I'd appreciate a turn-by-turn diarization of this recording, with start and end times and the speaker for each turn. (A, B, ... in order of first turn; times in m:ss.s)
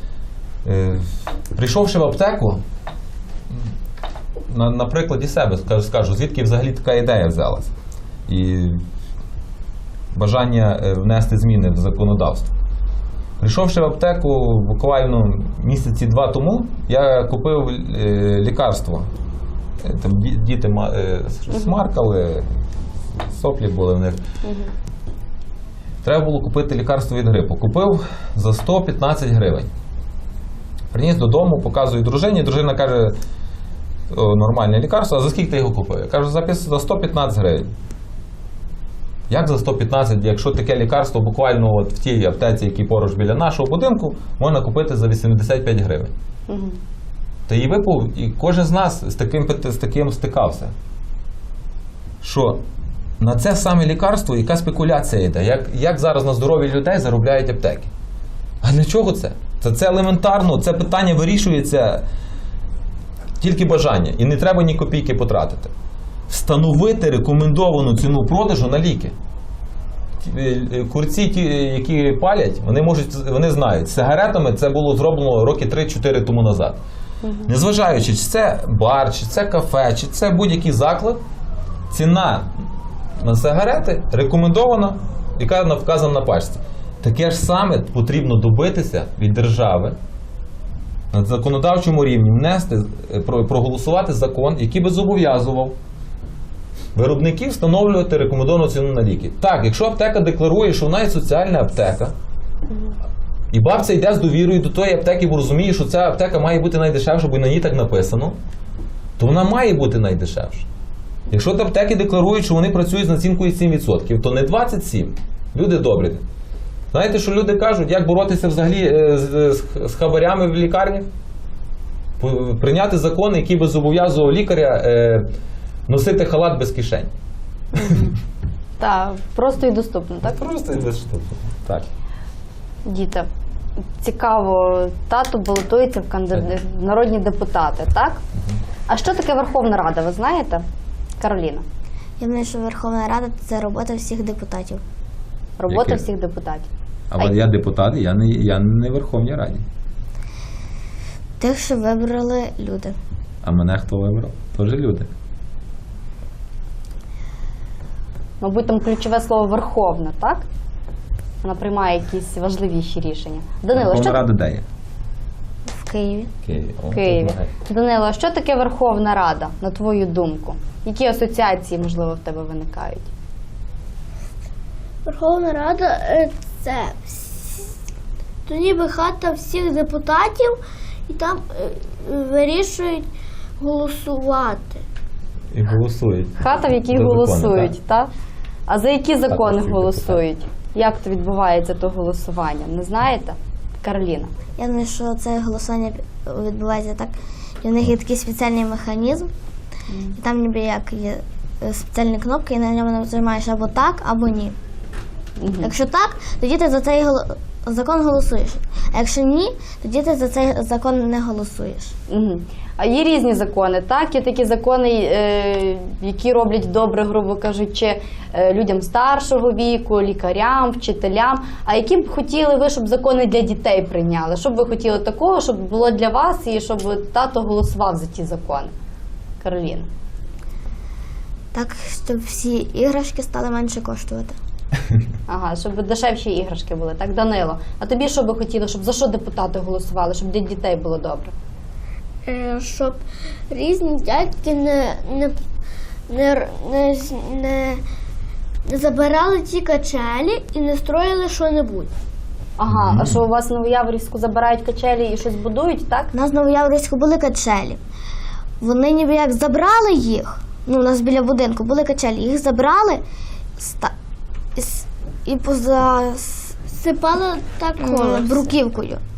0:00.6-0:02.6 A
0:04.5-0:07.7 A
0:08.3-0:08.8 A
0:10.1-0:12.5 A
0:13.4-0:19.1 A
0:19.8-0:22.5 A
0:23.3-0:24.2 A
0:24.4-0:24.7 B
0:26.0-0:29.7 A
0:30.9-0:33.2 A
0:34.1-0:37.7 A
0:39.3-0:46.1 A
0:46.5-0:46.8 B
0:47.5-0:50.7 A
0:52.2-0:52.6 A
0:53.2-0:57.9 A
0:58.6-1:02.0 A
1:03.4-1:05.7 A
1:06.3-1:09.1 A
1:10.2-1:16.8 A
1:17.2-1:17.5 B
1:17.5-1:21.2 A
1:21.9-1:22.5 A
1:23.2-1:30.0 A
1:31.1-1:35.7 A
1:36.9-1:42.1 A
1:43.5-1:48.4 A
1:49.2-1:50.7 A
1:51.3-1:56.2 A
1:56.9-2:01.1 A
2:02.2-2:05.3 A
2:05.9-2:07.1 A
2:07.7-2:08.1 B
2:08.8-2:10.4 B
2:10.2-2:11.9 A
2:12.8-2:13.3 B
2:14.0-2:18.2 B
2:18.9-2:20.6 B
2:21.2-2:21.6 B
2:22.2-2:24.8 C
2:25.6-2:27.4 B
2:25.7-2:26.0 A
2:27.1-2:29.6 A
2:31.4-2:33.0 C
2:33.4-2:35.1 A
2:38.4-2:40.4 B
2:41.4-2:44.2 B
2:43.7-2:44.6 A
2:45.6-2:46.3 C
2:46.4-2:47.5 A
2:46.9-2:53.1 B
2:55.0-2:57.7 D
2:58.4-3:03.1 D
3:03.6-3:04.8 D
3:05.5-3:07.7 A
3:06.4-3:08.1 B
3:08.7-3:14.3 B
3:09.3-3:10.2 A
3:14.6-3:19.3 C
3:19.9-3:20.2 B
3:20.2-3:24.6 C
3:25.4-3:25.7 B
3:25.6-3:31.9 C
3:32.1-3:48.7 B
3:49.4-3:49.9 B
3:51.5-3:54.4 C
3:55.3-4:01.3 B
4:02.2-4:05.4 D
4:06.1-4:07.8 D
4:08.7-4:11.9 D
4:12.6-4:16.1 B
4:12.7-4:13.2 A
4:16.1-4:17.8 C
4:18.6-4:23.0 C
4:23.6-4:23.9 C
4:24.6-4:26.6 C
4:26.7-4:28.5 D
4:27.8-4:29.0 C